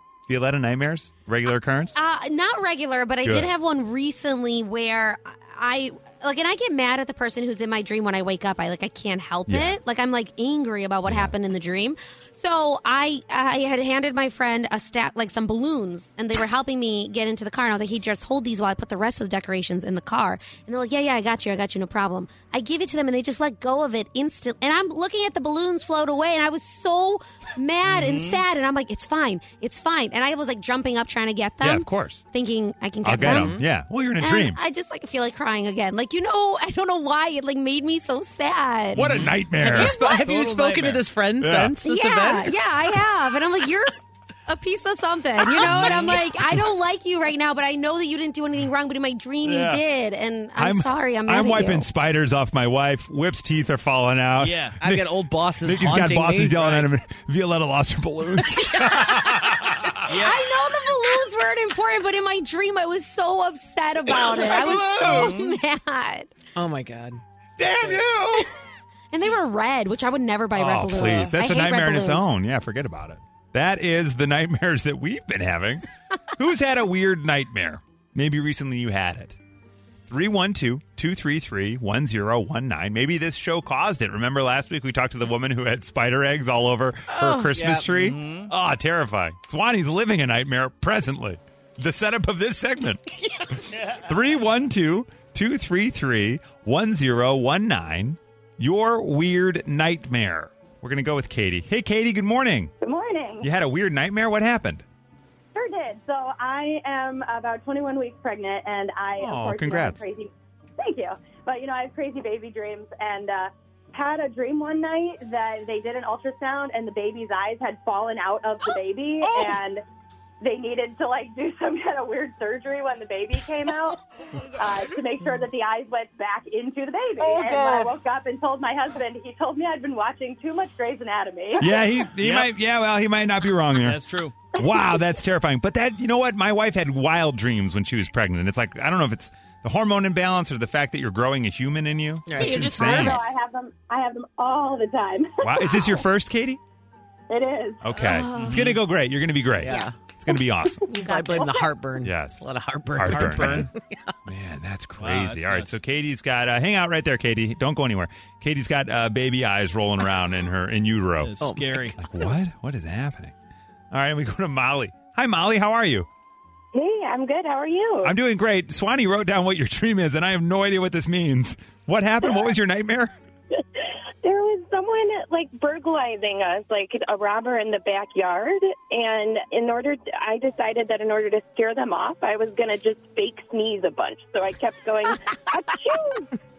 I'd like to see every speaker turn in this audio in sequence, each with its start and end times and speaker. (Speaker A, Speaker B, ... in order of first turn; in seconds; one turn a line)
Speaker A: 0.3-1.9
Speaker B: 1.9-33.6
Speaker A: 3.2-3.5
Speaker A: 9.5-9.8
Speaker A: 11.1-11.3
Speaker C: 27.9-28.4
Speaker A: 31.6-32.2
Speaker A: 33.0-34.6
Speaker D: 33.2-33.7
Speaker B: 34.2-39.1
Speaker A: 38.9-40.0
Speaker C: 39.0-41.0
Speaker D: 39.6-42.5
Speaker A: 41.4-41.7
Speaker B: 41.8-43.9
Speaker B: 44.5-51.9
Speaker D: 45.6-46.2
Speaker A: 45.6-46.6
Speaker C: 49.4-49.8
Speaker A: 50.6-60.1
Speaker C: 54.4-54.8
Speaker D: 54.8-56.9
Speaker C: 60.1-60.5
Speaker B: 60.1-66.3
Speaker A: 64.1-65.3
Speaker C: 64.9-65.6
Speaker D: 66.5-67.2
Speaker A: 67.6-68.5
Speaker B: 69.1-72.3
Speaker A: 70.5-75.8
Speaker A: 76.3-79.4
Speaker A: 80.1-102.7
Speaker D: 87.1-87.8
Speaker C: 87.9-88.5
Speaker E: 102.8-103.5
Speaker A: 103.4-104.8
Speaker E: 105.5-119.8
Speaker A: 109.2-110.0
Speaker E: 120.4-131.8
Speaker A: 131.6-134.0
Speaker C: 132.2-132.5
Speaker C: 133.8-134.3
Speaker A: 134.6-143.2
Speaker D: 142.3-142.8
Speaker B: 142.4-143.3
Speaker E: 142.8-146.0
Speaker A: 145.4-146.6
Speaker E: 147.3-147.9
Speaker A: 147.8-150.8
Speaker B: 147.9-148.8
Speaker C: 148.4-148.8
Speaker D: 149.6-149.9
Speaker B: 150.9-151.7
Speaker D: 150.9-154.0
Speaker A: 152.0-152.4
Speaker A: 152.9-153.7
Speaker C: 153.0-153.7
Speaker A: 154.3-161.4
Speaker C: 155.0-155.8
Speaker C: 161.2-162.0
Speaker D: 161.4-161.9
Speaker A: 162.0-163.3
Speaker A: 163.9-166.1
Speaker F: 166.7-168.1
Speaker A: 168.0-173.1
Speaker F: 173.6-186.3